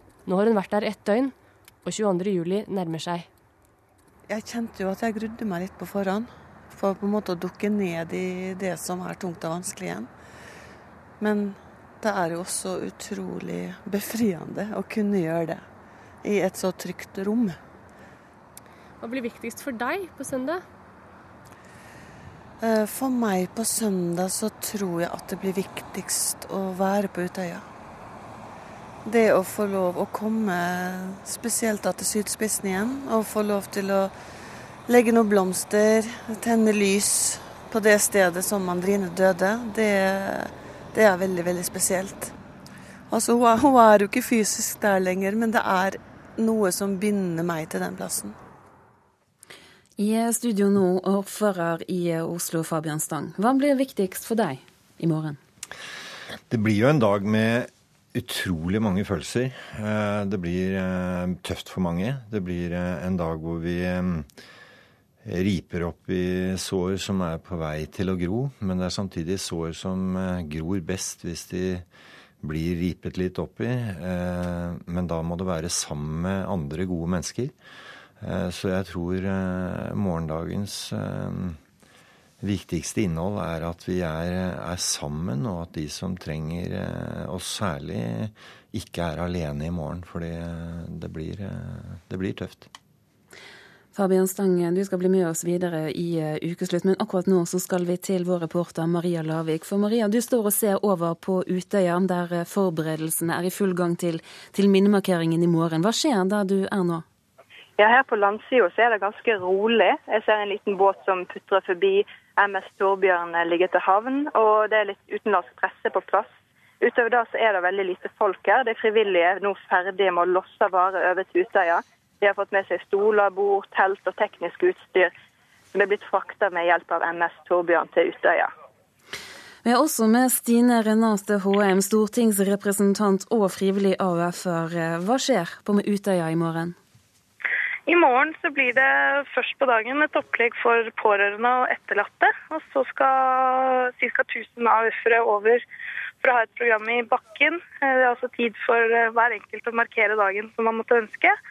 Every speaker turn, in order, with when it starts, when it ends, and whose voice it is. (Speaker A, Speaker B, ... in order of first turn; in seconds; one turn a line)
Speaker A: 0.2-1.3
Speaker A: 1.8-3.3
Speaker B: 4.3-10.1
Speaker B: 11.2-15.6
Speaker B: 16.2-17.6
Speaker A: 19.0-20.6
Speaker B: 22.6-27.6
Speaker B: 29.1-34.1
Speaker B: 34.9-42.3
Speaker B: 43.1-48.3
Speaker C: 50.0-55.4
Speaker D: 56.5-64.3
Speaker D: 65.2-71.8
Speaker D: 72.4-77.5
Speaker D: 78.2-81.6
Speaker D: 82.4-92.7
Speaker C: 93.9-107.0
Speaker E: 107.8-125.1
Speaker E: 125.7-128.5
Speaker C: 129.6-136.8
Speaker F: 137.9-145.6
Speaker F: 146.2-151.3